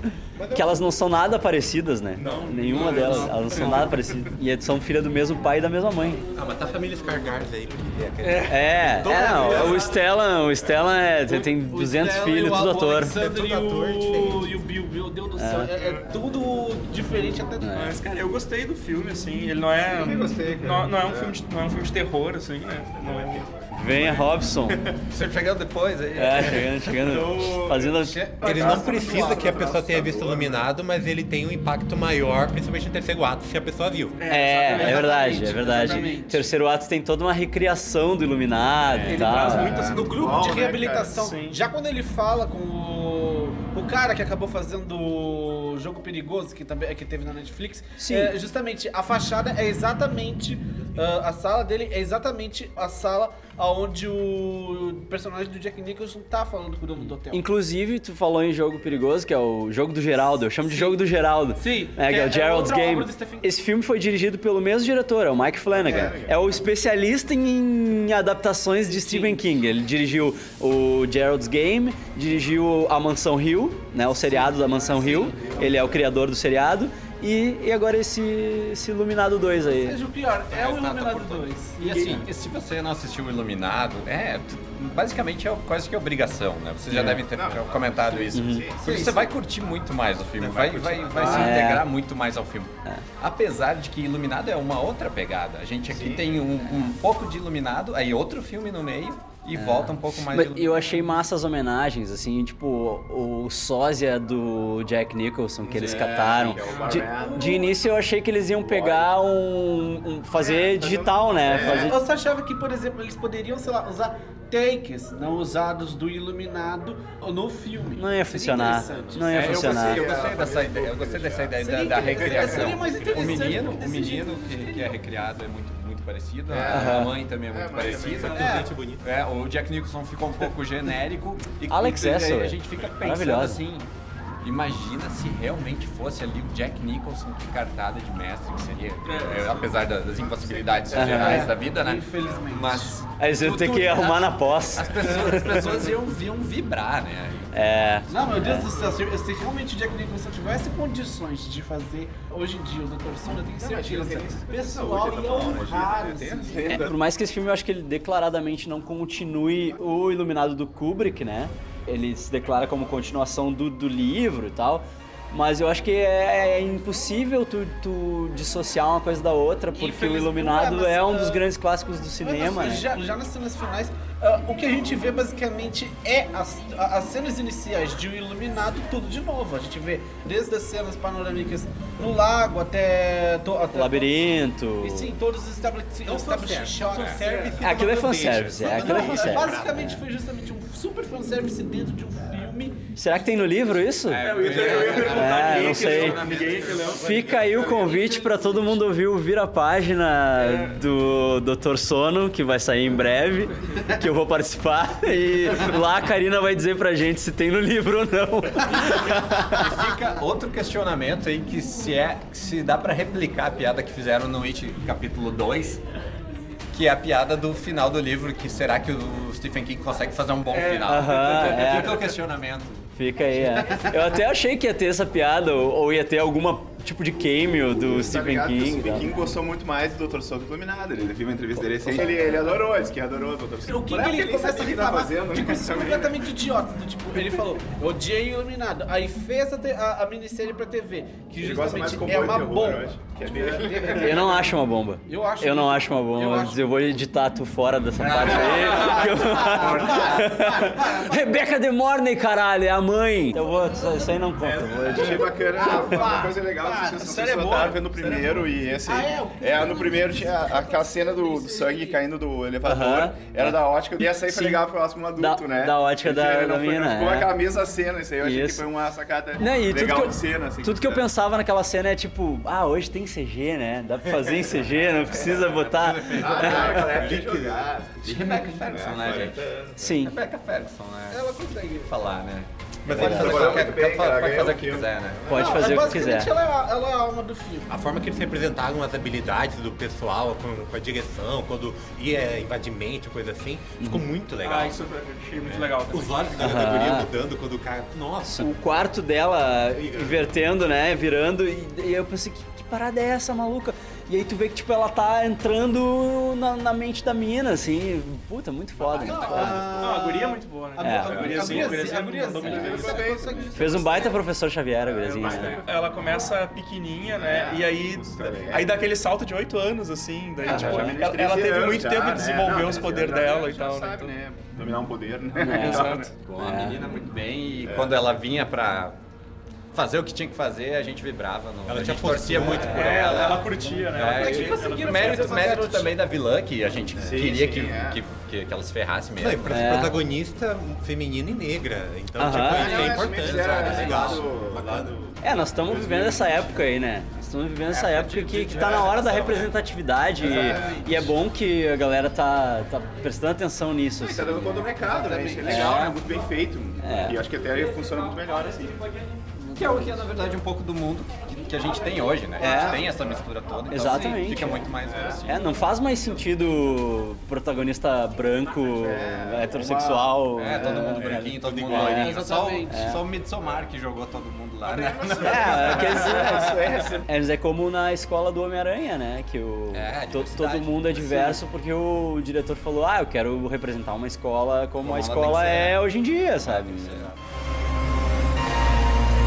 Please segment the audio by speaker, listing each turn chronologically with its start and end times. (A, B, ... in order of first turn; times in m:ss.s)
0:00.4-0:00.8 A
0:00.5-0:06.2 B
0:02.2-0:02.6 C
0:02.2-0:03.9 D
0:03.0-0:03.4 E
0:06.3-0:10.0 C
0:06.6-0:07.1 E
0:08.2-0:08.6 D
0:08.5-0:13.2 B
0:09.0-0:09.9 E
0:09.5-0:09.8 D
0:11.3-0:17.7 E
0:13.1-0:14.6 C
0:15.4-0:15.7 B
0:15.7-0:16.1 D
0:17.6-0:18.0 B
0:17.7-0:24.3 D
0:19.8-0:21.4 A
0:22.9-0:24.2 A
0:23.8-0:24.8 B
0:25.1-0:27.0 F
0:26.2-0:28.2 B
0:27.0-0:27.8 D
0:27.8-0:29.4 E
0:28.4-0:30.7 A
0:28.4-0:34.2 C
0:34.2-0:36.5 D
0:34.3-0:39.8 B
0:35.6-0:36.3 E
0:38.9-0:39.3 F
0:39.0-0:40.4 D
0:39.1-0:41.3 A
0:40.0-0:57.5 E
0:41.1-0:41.6 D
0:48.0-0:48.3 B
0:57.0-1:20.0 B
1:00.1-1:01.0 E
1:01.5-1:03.5 E
1:05.7-1:06.7 A
1:08.9-1:09.4 E
1:14.1-1:15.7 E
1:15.0-1:16.1 A
1:19.8-1:22.2 E
1:20.5-1:41.0 F
1:26.9-1:27.2 B
1:27.3-1:28.8 A
1:28.3-1:28.7 B
1:28.8-1:29.3 E
1:30.4-1:31.5 C
1:31.2-1:31.9 B
1:35.9-1:36.4 A
1:39.5-1:52.0 B
1:45.6-1:47.7 A
1:45.9-1:46.7 F
1:46.7-1:47.0 D
1:47.0-1:47.7 E
1:48.6-1:49.2 A
1:50.4-1:52.0 A
1:51.6-1:59.4 E
1:57.9-2:00.1 B
1:59.3-2:13.9 F
1:59.5-2:02.7 A
2:01.6-2:05.0 E
2:02.1-2:03.8 C
2:06.5-2:08.5 A
2:06.7-2:07.2 B
2:08.1-2:09.0 C
2:08.4-2:08.7 E
2:11.7-2:13.6 B
2:14.4-2:23.1 F
2:19.0-2:19.7 D
2:20.2-2:21.6 A
2:20.9-2:21.5 B
2:21.1-2:24.6 E
2:23.2-2:25.8 B
2:24.7-2:27.6 F
2:27.5-2:28.7 B
2:28.1-2:36.7 E
2:33.6-2:37.0 A
2:36.7-2:52.9 B
2:49.8-2:51.4 E
2:52.2-3:07.5 E
3:03.7-3:05.1 B
3:06.0-3:09.9 C
3:07.6-3:10.0 B
3:08.7-3:13.9 E
3:12.9-3:14.3 B
3:14.1-3:17.0 F
3:14.2-3:17.1 D
3:14.8-3:16.2 B
3:16.3-3:18.8 E
3:16.9-3:29.6 B
3:20.4-3:20.8 D
3:28.9-3:35.8 F
3:36.7-3:42.9 F
3:40.5-3:42.0 D
3:40.8-3:42.0 B
3:43.0-3:49.1 B
3:47.7-3:56.2 A
3:51.6-3:52.1 B
3:53.7-4:04.5 E
4:01.4-4:04.3 A
4:04.0-4:15.3 B
4:05.1-4:06.7 E
4:08.0-4:09.7 F
4:08.4-4:11.5 E
4:08.6-4:10.2 A
4:08.7-4:09.1 D
4:14.4-4:31.1 A
4:15.0-4:17.5 E
4:17.0-4:18.5 D
4:18.8-4:22.0 E
4:22.6-4:27.3 B
4:28.2-4:28.7 B
4:29.4-4:36.8 B
4:35.0-4:39.9 A
4:36.0-4:36.7 F
4:36.2-4:37.7 C
4:38.0-4:45.6 F
4:39.8-4:40.1 B
4:41.1-4:42.1 E
4:42.8-4:43.8 C
4:42.9-4:45.8 A
4:45.3-4:46.3 B
4:45.3-4:47.8 E
4:47.7-4:54.8 C
4:53.8-4:54.1 B
4:54.4-4:56.5 D
4:55.4-4:58.5 C
4:56.4-4:57.1 B
4:58.2-5:09.7 B
4:59.7-5:00.4 C
5:08.9-5:14.2 E
5:09.0-5:09.7 A
5:09.8-5:13.0 D
5:10.8-5:11.3 B
5:10.9-5:14.2 A
5:12.4-5:12.7 B
5:13.6-5:15.6 B
5:14.8-5:16.2 A
5:15.0-5:24.1 D
5:17.1-5:18.8 A
5:20.4-5:26.1 A
5:20.5-5:21.0 B
5:25.4-5:26.8 B
5:25.6-5:26.1 D
5:26.2-5:29.0 F
5:27.6-5:28.0 A
5:29.7-5:40.0 F
5:31.6-5:32.9 C
5:32.4-5:32.9 A
5:32.6-5:35.6 D
5:34.0-5:35.9 E
5:37.0-5:38.0 A
5:39.2-5:44.9 C
5:39.5-5:40.0 B
5:42.2-5:42.9 B
5:42.3-5:46.6 A
5:43.2-5:44.3 F
5:45.2-5:54.8 B
5:47.7-5:49.5 F
5:50.2-5:50.9 A
5:50.2-5:51.0 E
5:54.0-5:58.8 A
5:54.8-5:55.8 E
5:55.4-5:56.0 B
5:56.8-5:57.2 B
5:59.4-6:00.1 E
5:59.6-6:05.7 F
6:02.4-6:02.8 B
6:02.4-6:02.9 E
6:02.4-6:03.3 A
6:03.7-6:04.7 B
6:03.8-6:04.3 E
6:04.8-6:05.3 A
6:05.2-6:12.1 B
6:08.7-6:11.0 A
6:10.4-6:16.1 F
6:11.0-6:12.1 C
6:11.8-6:13.0 E
6:12.7-6:13.0 B
6:14.7-6:17.1 A
6:15.2-6:27.1 B
6:19.7-6:21.4 F
6:24.8-6:27.2 F